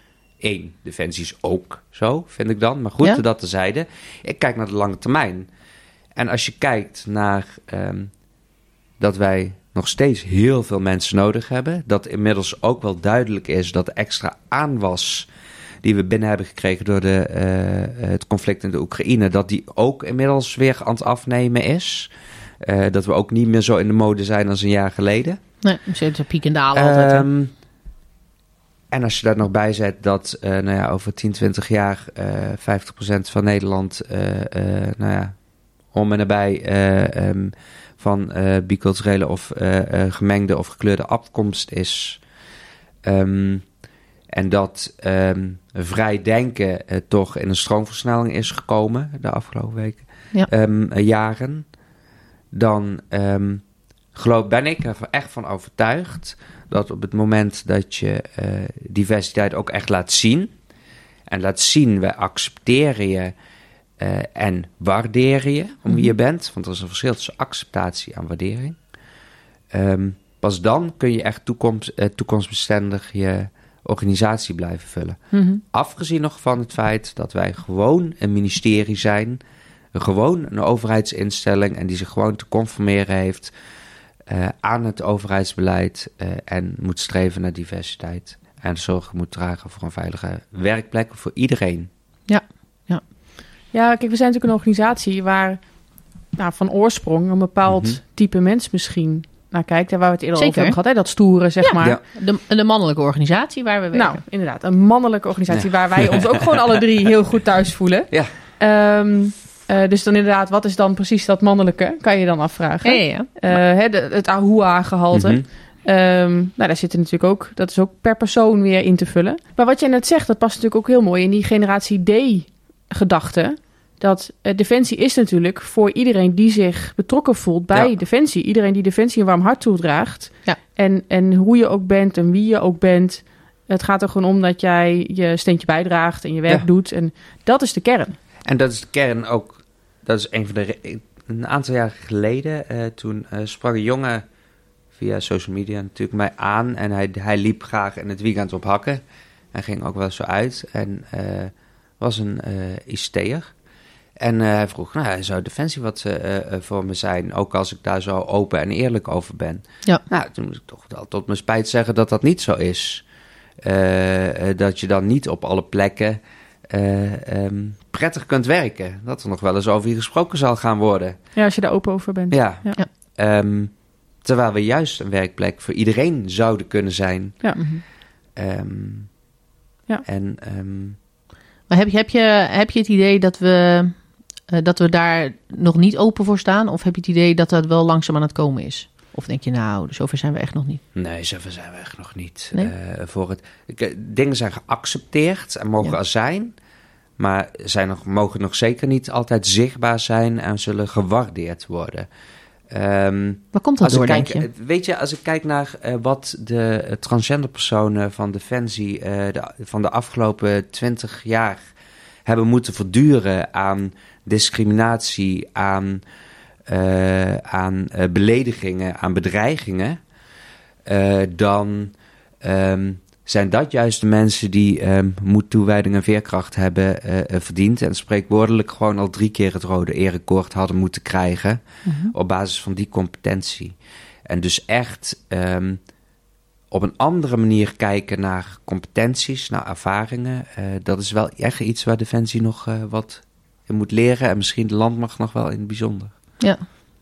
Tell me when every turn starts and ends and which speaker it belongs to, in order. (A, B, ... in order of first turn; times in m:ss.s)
0:00.4-0:05.5 A
0:06.2-0:08.1 A
0:09.0-0:15.3 A
0:15.8-0:22.1 A
0:22.6-0:25.4 A
0:25.6-0:27.3 B
0:26.7-0:27.5 A
0:28.9-0:35.4 A
0:35.9-0:42.2 A
0:43.0-0:43.6 A
0:44.3-0:51.6 A
0:52.5-0:53.6 A
0:54.1-1:00.5 A
1:01.3-1:03.3 A
1:04.0-1:08.8 A
1:09.7-1:15.2 A
1:15.3-1:15.6 C
1:15.7-1:19.4 A
1:19.9-1:23.5 A
1:24.3-1:31.9 A
1:32.3-1:33.0 B
1:33.7-1:35.6 C
1:36.4-1:42.0 C
1:37.7-1:38.0 A
1:40.3-1:40.8 B
1:41.6-1:44.2 B
1:43.9-2:18.2 C
1:45.5-1:46.4 A
1:52.8-1:53.5 B
1:55.1-1:55.4 A
2:18.4-2:24.2 A
2:25.0-2:29.0 A
2:29.5-2:33.5 A
2:34.2-2:43.0 A
2:43.6-2:51.2 A
2:51.4-2:52.8 C
2:52.3-2:57.5 A
2:57.6-2:57.8 B
2:58.4-2:59.1 A
3:00.0-3:01.0 A
3:01.7-3:10.8 B
3:10.9-3:16.5 A
3:17.2-3:22.1 A
3:22.7-3:31.6 A
3:23.5-3:24.4 B
3:32.2-3:36.0 A
3:36.7-3:40.0 A
3:40.8-3:53.7 A
3:51.8-3:52.1 B
3:54.3-3:55.8 A
3:56.7-4:06.2 A